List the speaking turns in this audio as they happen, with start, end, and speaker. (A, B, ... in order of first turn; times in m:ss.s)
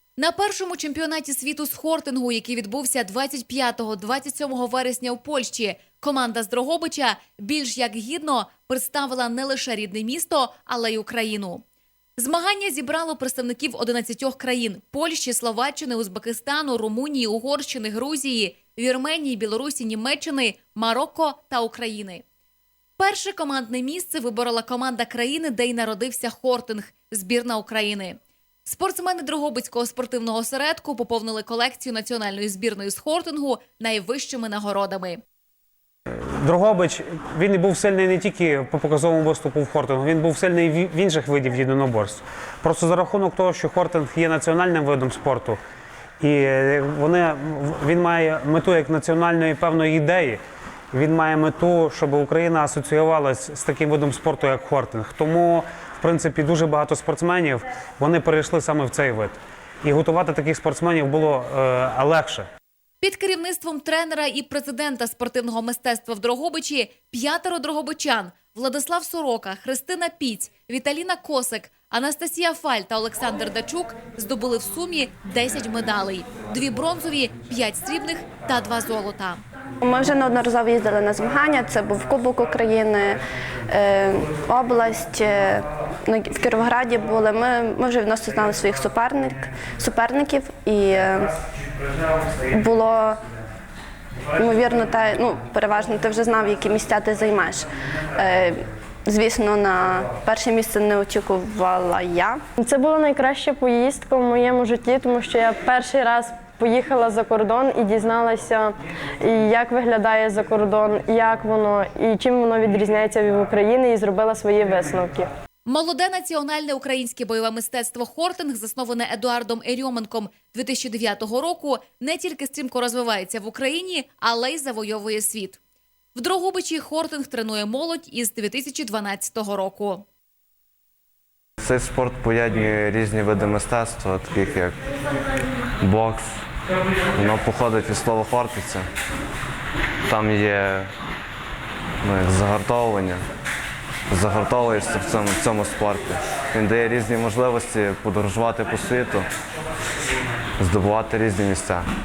0:00.2-0:11.6 A
0:12.2-0:22.2 A
0:23.0-0:35.2 A
0:36.1-0:45.6 B
0:46.2-1:02.5 B
1:03.0-1:19.4 A
1:19.8-1:31.4 C
1:31.7-1:32.3 B
1:32.5-1:33.2 C
1:34.3-1:42.4 C
1:42.6-1:55.3 D
1:55.7-2:05.6 A
2:06.2-2:10.1 A
2:11.6-2:14.9 E
2:15.8-2:16.4 E
2:17.1-2:18.9 E
2:20.1-2:20.9 E
2:22.0-2:23.2 E
2:24.1-2:29.3 E
2:30.6-2:31.9 E